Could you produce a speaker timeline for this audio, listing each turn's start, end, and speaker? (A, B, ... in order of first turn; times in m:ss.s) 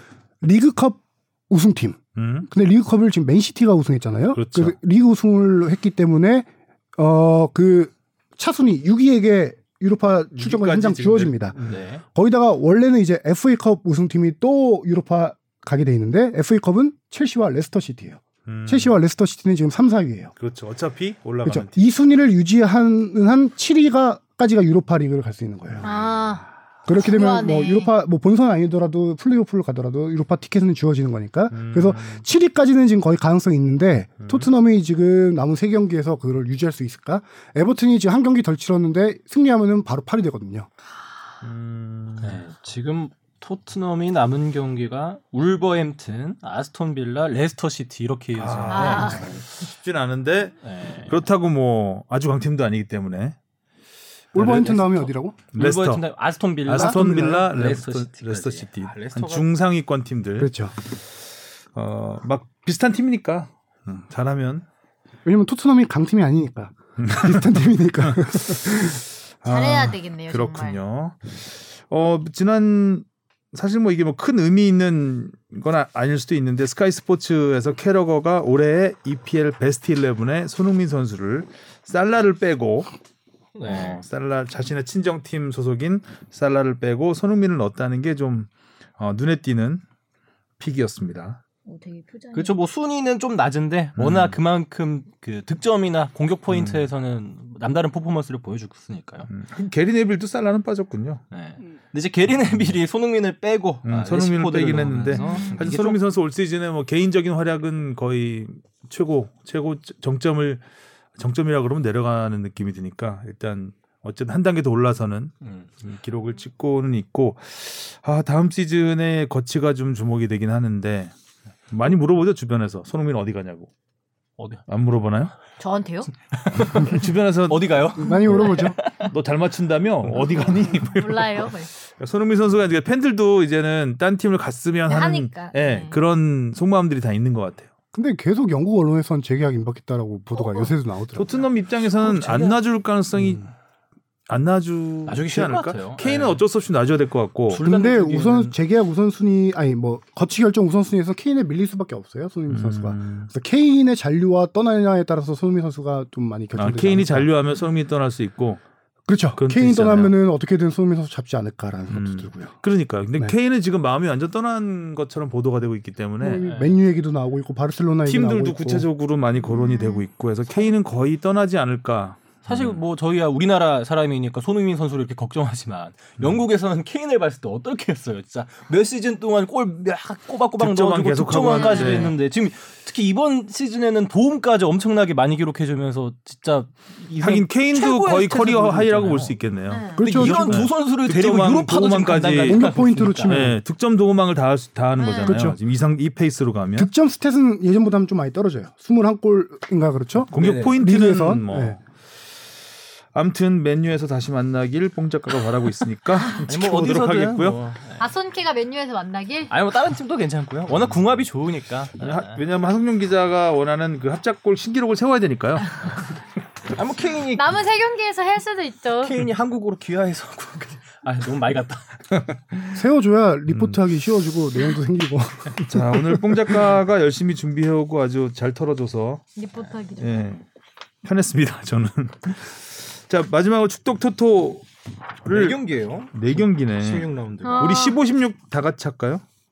0:00.4-0:11.6 A
0:02.2-0:02.5 B
0:04.3-0:04.7 B
0:10.4-0:11.8 B
0:11.6-0:12.0 C
0:12.1-0:20.3 A
0:18.4-0:18.9 B
0:20.4-0:21.8 B
0:21.4-0:25.9 A
0:25.8-0:27.9 D
0:26.8-0:40.7 A
0:31.5-0:32.2 B
0:34.2-0:34.5 B
0:41.4-0:42.4 B
0:42.2-0:49.4 C
0:48.3-0:53.3 B
0:48.7-0:49.3 D
0:50.6-0:51.2 C
0:54.3-0:55.4 A
0:54.3-0:56.0 B
0:55.5-0:59.5 C
0:56.6-1:00.5 B
0:56.7-0:57.5 A
1:00.4-1:00.7 A
1:01.7-1:04.6 B
1:05.2-1:09.0 A
1:07.0-1:07.5 B
1:08.0-1:22.9 B
1:09.4-1:10.8 D
1:23.5-1:24.0 C
1:23.6-1:29.8 B
1:30.6-1:31.4 B
1:31.6-1:32.5 D
1:32.3-1:39.3 C
1:34.0-1:34.4 B
1:36.5-1:36.8 B
1:39.3-1:41.2 B
1:41.3-1:46.0 C
1:43.8-1:50.6 B
1:45.1-1:45.6 D
1:51.2-2:01.1 B
2:01.7-2:03.7 B
2:04.7-2:05.3 B
2:05.6-2:06.1 D
2:06.4-2:09.0 C
2:06.6-2:17.7 B
2:08.0-2:08.8 A
2:08.1-2:08.8 D
2:10.8-2:11.7 D
2:14.9-2:16.0 D
2:17.9-2:21.5 A
2:20.3-2:20.7 D
2:21.1-2:23.5 B
2:22.0-2:22.5 D
2:24.3-2:27.6 B
2:25.0-2:26.4 C
2:27.5-2:28.5 C
2:27.6-2:37.3 A
2:32.5-2:33.3 B
2:36.6-2:38.6 B
2:39.1-2:42.6 A
2:39.4-2:40.2 B
2:41.9-2:46.5 B
2:46.2-2:48.9 A
2:46.4-2:46.8 C
2:48.0-2:52.8 B
2:49.5-2:50.0 D
2:52.4-3:09.4 C
3:00.6-3:02.2 B
3:01.5-3:02.1 D
3:07.2-3:12.6 B
3:09.7-3:10.0 D
3:10.0-3:10.7 A
3:10.0-3:13.4 C
3:12.4-3:13.6 A
3:13.2-3:16.9 B
3:15.0-3:15.4 D
3:15.2-3:15.6 A
3:16.8-3:21.8 A
3:20.3-3:21.8 B
3:20.3-3:20.8 C
3:23.1-3:27.6 B
3:26.5-3:28.1 C
3:28.0-3:29.5 D
3:29.5-3:32.4 C
3:32.0-3:35.9 B
3:36.7-3:37.5 C
3:37.3-3:39.2 D
3:39.0-3:42.2 C
3:42.7-3:46.6 A
3:43.5-3:43.8 B
3:45.6-3:49.2 B
3:49.4-3:50.3 D
3:50.0-3:50.4 B
3:51.0-3:54.6 B
3:55.2-3:55.6 B
3:55.2-3:57.8 C
3:56.1-3:59.2 B
3:57.4-3:58.0 D